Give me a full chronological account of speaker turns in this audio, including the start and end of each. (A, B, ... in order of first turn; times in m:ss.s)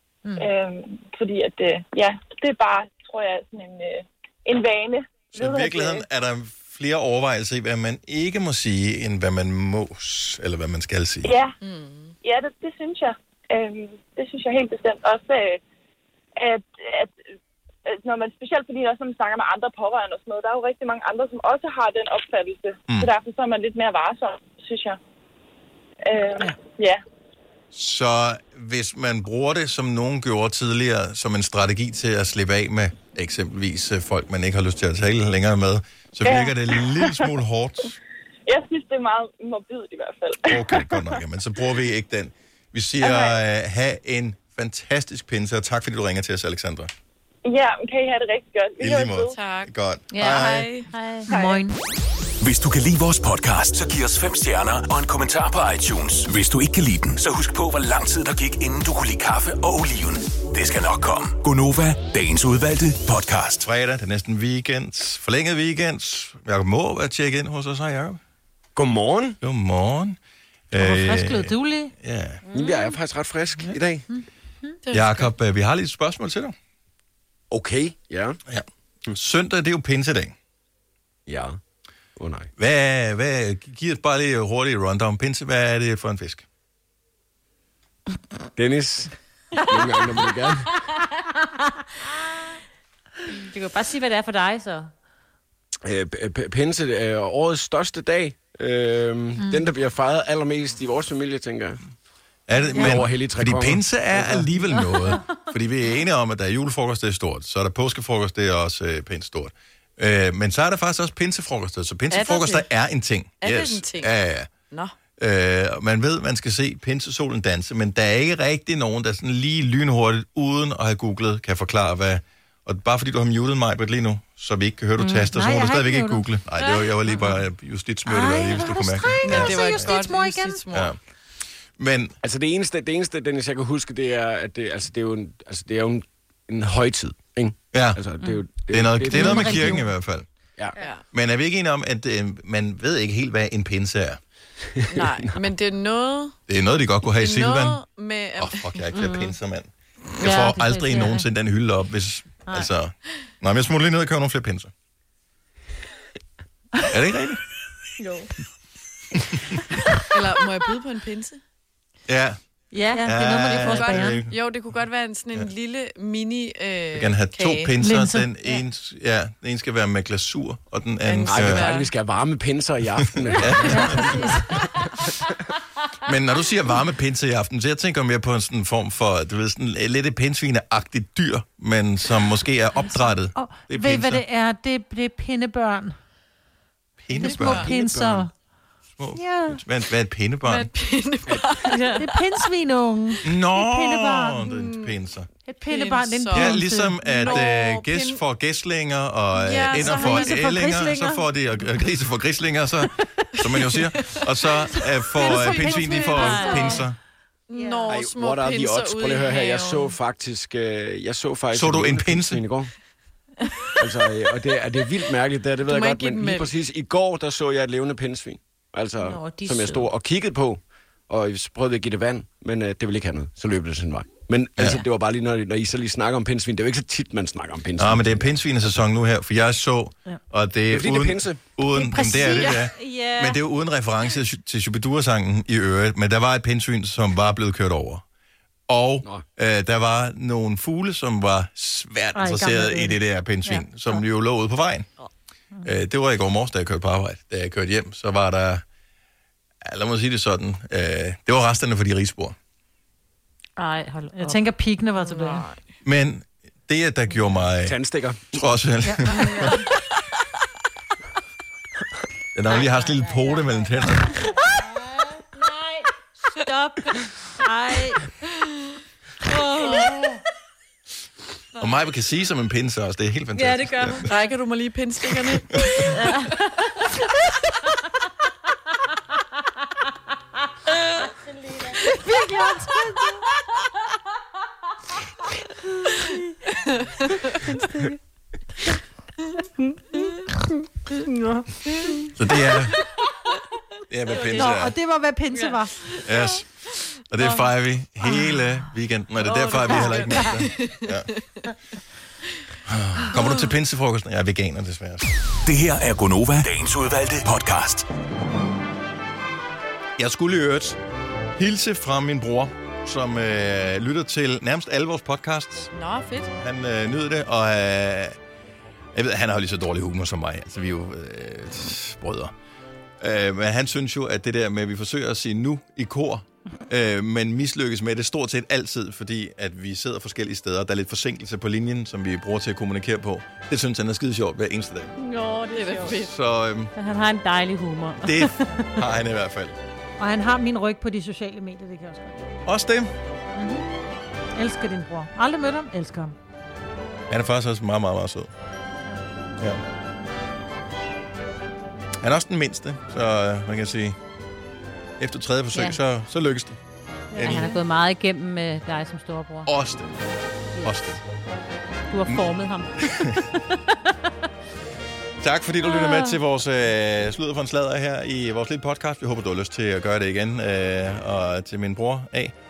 0:00.4-0:06.0 A
0:05.3-0:11.3 B
0:11.2-0:11.5 A
0:11.6-0:12.2 C
0:12.2-0:15.6 A
0:16.4-0:17.2 A
0:17.9-0:25.0 A
0:26.0-0:27.0 A
0:27.7-0:38.0 B
0:36.2-0:37.2 A
0:38.5-0:41.1 A
0:40.4-0:46.9 B
0:43.0-0:43.4 A
0:47.4-0:49.3 A
0:48.8-0:50.7 B
0:49.3-0:50.9 C
0:50.1-0:51.6 D
0:51.3-0:51.8 E
0:52.4-1:03.6 F
1:03.6-1:08.2 B
1:08.8-1:09.4 G
1:09.4-1:10.2 B
1:10.7-1:12.4 B
1:10.7-1:11.9 E
1:12.5-1:13.0 D
1:12.5-1:14.0 G
1:13.6-1:14.8 E
1:14.8-1:15.3 C
1:14.9-1:16.5 B
1:17.5-1:18.4 G
1:18.5-1:20.3 B
1:21.3-1:21.6 G
1:22.2-1:22.5 G
1:22.6-1:26.4 B
1:28.6-1:29.1 G
1:29.7-1:30.7 G
1:33.3-1:34.9 D
1:35.8-1:41.8 G
1:42.5-1:54.5 B
1:42.7-1:43.0 E
1:42.8-1:44.5 G
1:52.1-1:52.7 C
1:53.4-1:54.1 C
1:55.2-2:10.0 B
2:05.0-2:06.2 E
2:06.6-2:06.9 C
2:08.1-2:10.6 E
2:09.2-2:10.9 C
2:10.7-2:11.0 B
2:11.8-2:12.2 B
2:12.2-2:19.8 G
2:17.7-2:18.0 B
2:18.2-2:18.4 D
2:18.7-2:20.3 B
2:19.1-2:19.8 E
2:19.1-2:19.8 D
2:21.1-2:24.2 B
2:24.9-2:26.4 C
2:24.9-2:25.2 G
2:26.5-2:27.8 B
2:27.1-2:28.9 C
2:28.4-2:34.7 B
2:28.9-2:29.3 D
2:30.2-2:31.2 D
2:36.9-2:37.4 B
2:40.1-2:41.4 C
2:42.1-2:42.4 B
2:42.7-2:44.2 E
2:42.7-2:43.0 D
2:43.0-2:44.3 B
2:43.6-2:47.7 C
2:46.9-2:51.7 B
2:47.8-2:48.3 E
2:51.0-2:51.9 C
2:51.2-2:54.8 G
2:53.2-2:54.2 B
2:53.7-2:54.6 E
2:56.0-3:04.2 B
3:03.3-3:06.0 E
3:07.0-3:08.3 B
3:07.2-3:08.3 E
3:07.3-3:07.7 C
3:09.0-3:10.7 B
3:09.1-3:09.6 E
3:10.4-3:12.2 C
3:11.7-3:14.5 E
3:13.2-3:15.3 B
3:14.5-3:14.9 C
3:15.5-3:17.4 E
3:15.6-3:16.6 C
3:16.3-3:27.0 B
3:17.2-3:18.2 C
3:19.4-3:20.4 C
3:19.7-3:21.3 E
3:23.5-3:23.9 C
3:25.2-3:26.8 E
3:25.2-3:26.0 C
3:26.1-3:26.8 D
3:27.5-3:30.0 C
3:27.5-3:27.9 E
3:27.9-3:32.7 G
3:31.5-3:32.4 B
3:33.8-3:48.3 G
3:35.6-3:36.5 C
3:39.0-3:39.9 D
3:44.6-3:44.8 B
3:47.8-3:58.0 B
3:50.7-3:51.4 G
3:51.8-3:52.4 E
3:52.0-3:53.4 D
3:52.3-3:52.6 C
3:58.7-4:04.9 B
4:02.1-4:04.0 E
4:05.6-4:08.6 B
4:09.6-4:12.4 B
4:13.6-4:14.4 D
4:14.1-4:15.4 E
4:15.0-4:15.6 C
4:15.8-4:17.8 B
4:17.6-4:18.4 G
4:18.3-4:19.6 B
4:18.8-4:19.6 E
4:22.3-4:24.3 B
4:22.5-4:23.6 D
4:25.4-4:28.1 D
4:29.3-4:30.2 D
4:31.6-4:34.1 B
4:33.3-4:34.3 D
4:34.1-4:36.1 C
4:35.9-4:36.2 D
4:41.8-4:43.2 E
4:47.5-4:47.8 E
4:52.2-4:52.8 B
4:53.9-4:54.8 B
4:54.2-4:55.7 E
4:55.4-4:56.0 C
4:56.0-4:56.4 B
4:57.1-5:01.1 B
4:59.2-5:01.0 C
5:02.6-5:05.0 B
5:05.4-5:07.8 F
5:10.0-5:10.8 B
5:11.4-5:15.7 B
5:15.7-5:16.3 C
5:16.4-5:18.2 B
5:18.9-5:22.3 B
5:23.0-5:34.9 B
5:35.5-5:36.1 C
5:35.5-5:35.9 D
5:36.0-5:36.7 B
5:36.8-5:38.8 D
5:38.0-5:39.6 B
5:40.0-5:42.2 E
5:42.4-5:42.9 B
5:43.3-5:43.6 E
5:44.4-5:46.1 E
5:47.1-5:48.3 B
5:52.0-5:54.0 B
5:55.0-5:56.6 B
5:57.1-5:57.6 E
5:57.1-5:57.5 B
5:57.2-5:59.5 D
5:59.4-6:00.0 B
6:00.5-6:01.0 D
6:00.6-6:01.0 B
6:01.9-6:03.5 D
6:02.8-6:03.1 B
6:05.2-6:12.3 B
6:05.6-6:06.2 D